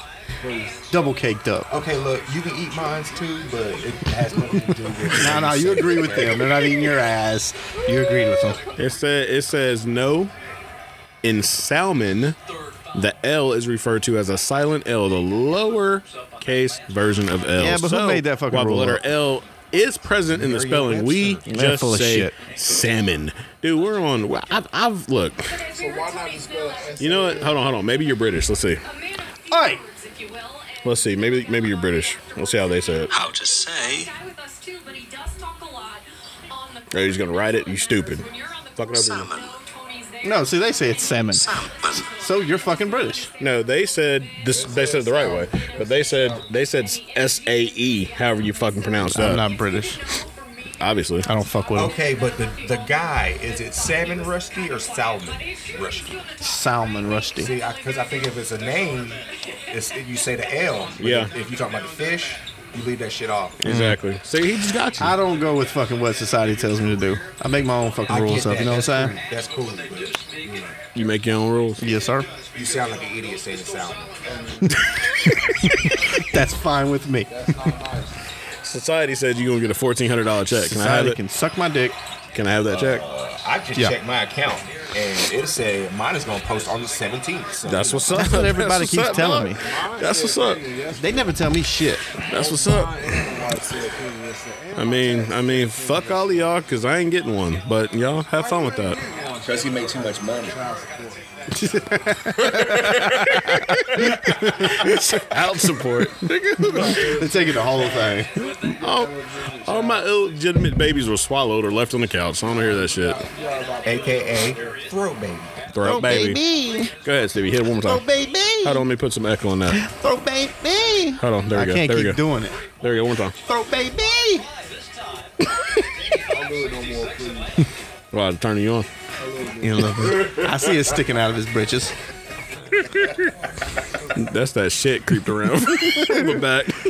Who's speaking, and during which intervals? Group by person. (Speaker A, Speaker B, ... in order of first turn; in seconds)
Speaker A: 0.4-0.9, 25.7-27.6, 44.5-46.5, 74.2-76.4, 77.3-78.2, 89.2-91.4, 92.3-96.5, 98.3-101.2, 106.6-110.1, 112.4-114.8, 126.3-127.5, 129.2-129.9
Speaker B: 0.9-1.7, 5.1-8.7, 17.6-19.0, 21.5-22.4, 29.5-29.9, 40.2-43.3, 49.0-50.0, 51.2-52.0, 56.4-57.5, 63.6-64.0, 65.0-69.2, 71.8-72.3, 76.1-77.7, 80.5-82.0, 88.1-89.6, 91.0-92.0, 101.5-105.2, 106.8-108.3, 115.8-116.9, 117.8-118.8, 119.7-122.6, 123.4-124.5, 129.6-131.9, 135.9-136.4
Speaker C: 1.7-6.8, 20.3-21.5, 51.7-56.2, 57.4-63.6, 68.1-70.7, 72.5-74.2, 82.7-88.4, 99.4-100.6, 113.8-115.6
Speaker D: 8.8-10.3, 11.2-12.4, 12.9-25.5, 27.0-28.8, 30.8-33.1, 36.9-39.3, 43.4-49.5, 50.8-51.3, 61.0-61.3, 63.6-65.2, 70.9-71.8, 78.6-81.2, 82.3-83.0, 87.7-90.6, 92.3-93.2, 94.8-99.0, 102.5-107.1, 108.8-109.1, 109.7-113.2, 115.7-116.4, 117.0-118.0, 118.6-119.8, 121.2-122.2, 122.8-123.4, 128.1-128.9, 134.2-136.8
Speaker E: 33.1-34.1, 39.0-39.6, 41.4-42.0